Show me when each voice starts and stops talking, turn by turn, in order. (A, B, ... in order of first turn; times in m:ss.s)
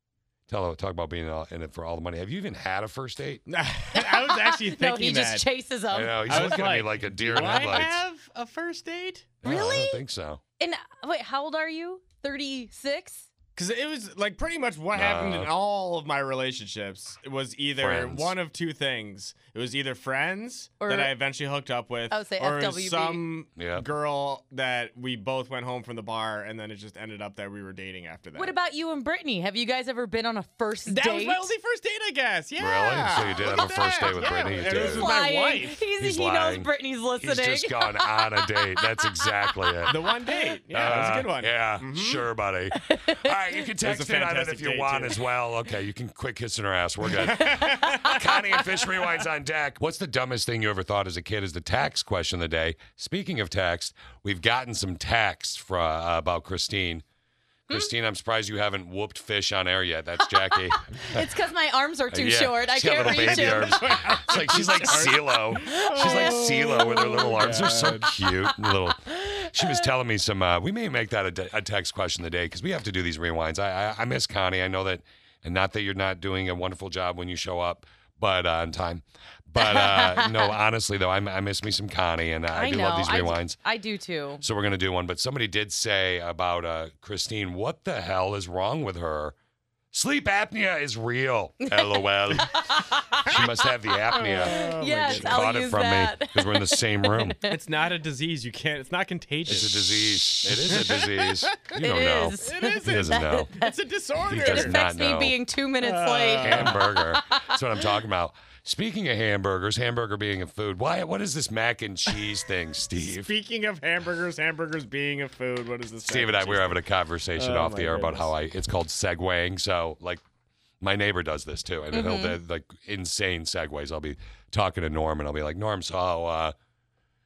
0:00.5-0:03.4 A
0:03.5-0:05.5 B
0:04.0-0:06.7 C
0:05.9-0:08.0 A
0:06.3-0:09.4 B
0:07.4-0:07.8 C
0:09.4-0:10.4 A
0:09.4-0:10.0 C
0:10.6-0:13.3 C
0:13.6-0:28.5 B
0:14.9-0:15.5 A
0:17.8-0:18.3 A
0:20.8-0:21.1 C
0:22.1-0:23.2 C
0:23.6-0:23.8 A
0:28.4-0:31.5 C
0:30.9-0:35.8 B
0:32.6-0:35.1 A
0:34.6-0:39.7 C
0:36.0-0:40.0 A
0:39.9-0:42.2 B
0:40.7-0:57.0 A
0:42.8-0:43.3 C
0:43.8-0:45.1 B
0:47.0-0:48.8 B
0:57.7-1:01.3 A
1:00.2-1:04.0 C
1:02.1-1:23.6 A
1:03.0-1:08.3 B
1:05.7-1:07.0 C
1:08.9-1:09.9 C
1:19.6-1:20.6 C
1:22.5-1:24.4 C
1:24.4-1:29.4 A
1:29.9-1:32.6 A
1:31.6-1:33.3 C
1:33.2-1:37.4 A
1:34.1-1:37.6 C
1:34.2-1:35.4 B
1:37.5-1:41.8 B
1:39.5-1:43.5 A
1:40.3-1:40.7 C
1:41.8-1:43.7 C
1:42.4-1:44.8 B
1:44.3-1:45.4 A
1:44.4-1:47.9 C
1:45.8-1:46.9 B
1:46.4-1:53.3 A
1:53.0-1:56.8 B
1:56.0-2:00.2 A
1:57.4-1:58.3 B
2:00.8-2:06.6 A
2:01.9-2:02.4 C